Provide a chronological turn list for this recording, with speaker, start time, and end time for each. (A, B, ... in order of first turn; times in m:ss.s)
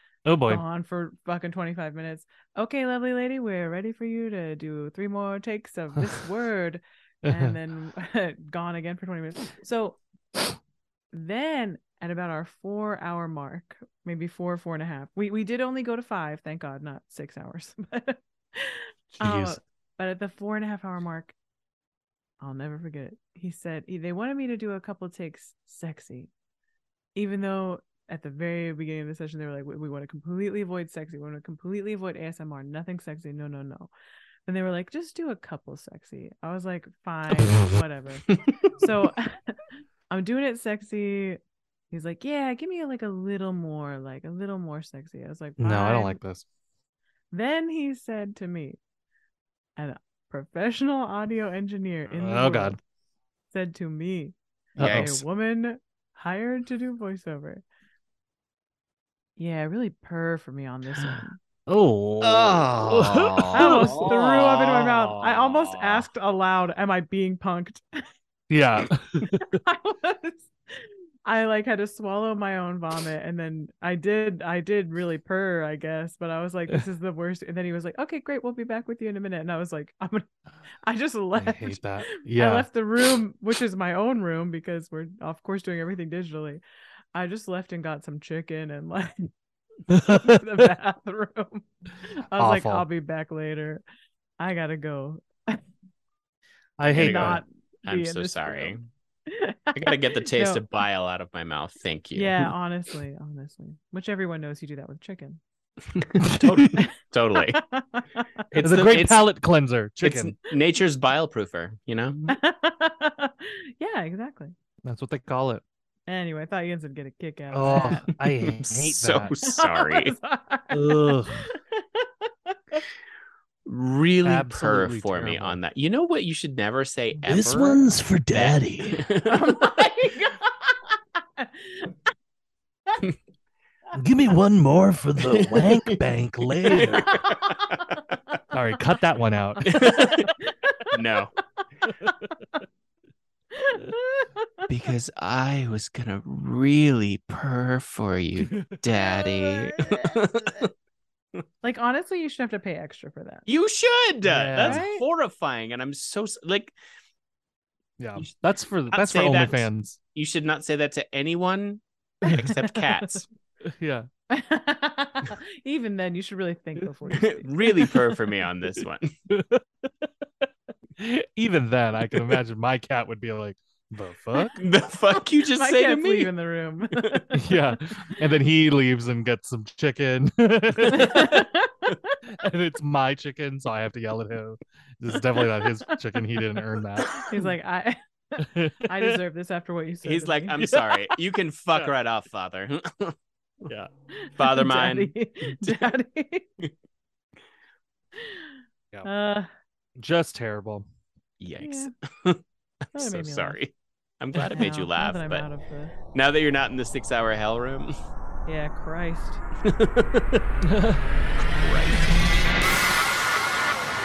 0:00.3-0:00.6 A
0:00.5-0:10.0 B
0:07.3-0:07.5 A
0:11.1-0:21.3 B
0:19.2-0:19.6 A
0:22.4-0:26.3 B
0:27.2-0:33.9 B
0:34.5-0:41.4 B
0:38.3-0:38.7 C
0:41.9-0:46.2 B
0:45.6-0:46.4 A
0:47.3-0:48.8 B
0:49.8-0:52.8 B
0:52.1-0:52.8 A
0:53.5-0:57.6 B
0:54.8-0:55.1 C
0:54.8-0:55.2 A
0:59.4-1:01.4 B
1:01.7-1:05.4 A
1:02.2-1:04.4 C
1:03.5-1:07.8 B
1:08.5-1:09.6 A
1:09.4-1:20.3 B
1:20.8-1:26.6 B
1:21.4-1:22.7 A
1:27.2-1:29.3 B
1:29.9-1:30.4 A
1:29.9-1:31.6 B
1:32.3-1:33.8 B
1:32.4-1:32.9 A
1:34.4-1:35.6 B
1:36.8-1:37.4 A
1:36.9-1:38.7 B
1:36.9-1:38.9 C
1:39.3-1:40.6 B
1:39.8-1:42.5 C
1:42.1-1:45.4 B
1:46.0-1:47.6 C
1:46.2-1:46.8 A
1:46.8-1:48.2 B
1:48.5-1:49.2 C
1:48.6-1:50.3 A
1:50.0-1:52.4 C
1:52.3-1:54.5 B
1:54.8-1:55.6 A
1:56.1-1:58.1 B
1:57.5-1:59.4 A
1:58.4-2:00.2 C
1:59.4-2:02.8 B
2:00.7-2:01.5 A
2:03.6-2:09.9 C
2:04.2-2:05.6 A
2:07.3-2:09.0 D
2:09.2-2:12.0 B
2:14.1-2:17.1 D
2:15.3-2:15.8 C
2:15.9-2:17.1 A
2:16.7-2:17.8 C
2:17.1-2:17.8 B
2:18.5-2:20.2 A
2:19.6-2:20.3 C
2:19.7-2:21.0 B
2:20.9-2:21.3 C
2:23.5-2:24.7 B
2:24.7-2:30.7 C
2:28.5-2:28.8 A
2:28.9-2:30.7 B
2:31.6-2:33.5 B
2:33.5-2:36.7 C
2:34.2-2:34.8 A
2:34.6-2:35.0 B
2:38.0-2:40.0 A
2:38.9-2:43.3 C
2:42.2-2:43.2 B
2:43.8-2:44.1 A
2:44.3-2:48.0 B
2:47.1-2:49.1 C
2:49.3-2:50.1 A
2:51.0-2:54.6 A
2:54.6-2:56.3 C
2:55.1-2:57.8 B
2:57.3-3:01.5 A
3:00.9-3:02.2 B
3:02.3-3:07.3 A
3:07.2-3:10.6 B
3:08.4-3:09.1 A
3:10.0-3:15.9 C
3:10.6-3:11.0 A
3:14.2-3:16.5 B
3:18.2-3:18.5 B
3:19.0-3:19.5 B
3:20.0-3:20.9 A
3:21.4-3:22.4 C
3:21.6-3:21.9 B
3:23.0-3:23.6 B
3:23.0-3:25.5 C
3:24.5-3:26.0 B
3:26.1-3:27.9 C
3:28.5-3:29.4 B
3:29.6-3:30.4 C
3:30.6-3:31.0 A
3:31.5-3:32.2 C